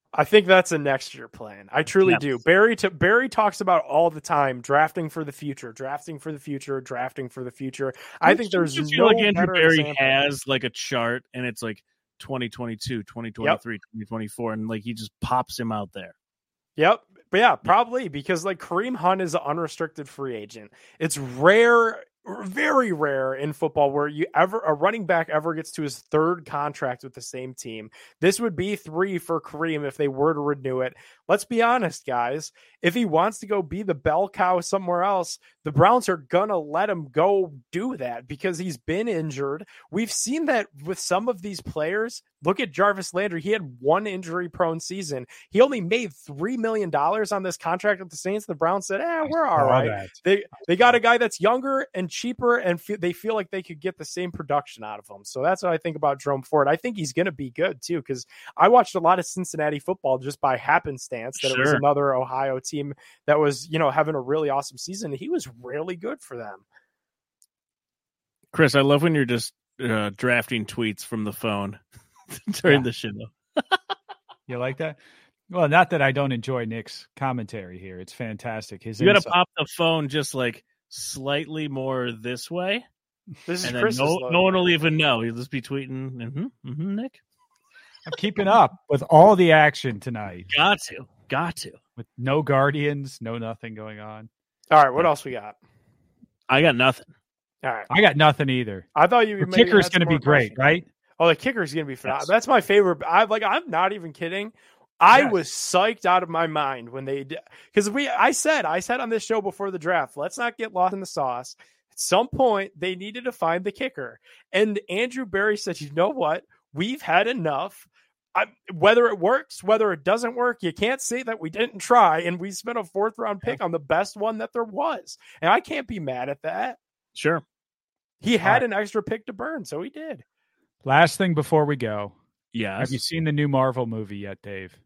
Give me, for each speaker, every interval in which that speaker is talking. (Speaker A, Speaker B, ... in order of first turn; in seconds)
Speaker A: 0.1-10.2, 16.8-66.6, 83.5-84.6, 94.7-95.6, 97.6-97.9, 98.9-126.8, 128.2-130.2
Speaker B: 8.2-16.1, 61.4-61.8, 68.5-71.8, 72.4-73.8, 79.0-82.8, 83.6-87.2, 90.5-91.8, 96.5-97.0, 102.0-102.3, 127.1-127.4, 132.5-133.0
Speaker C: 49.2-50.1, 74.5-75.0, 75.5-79.3, 88.0-90.5, 92.0-94.3, 97.9-98.9, 99.4-100.8, 105.1-105.4, 130.8-132.1, 132.8-134.8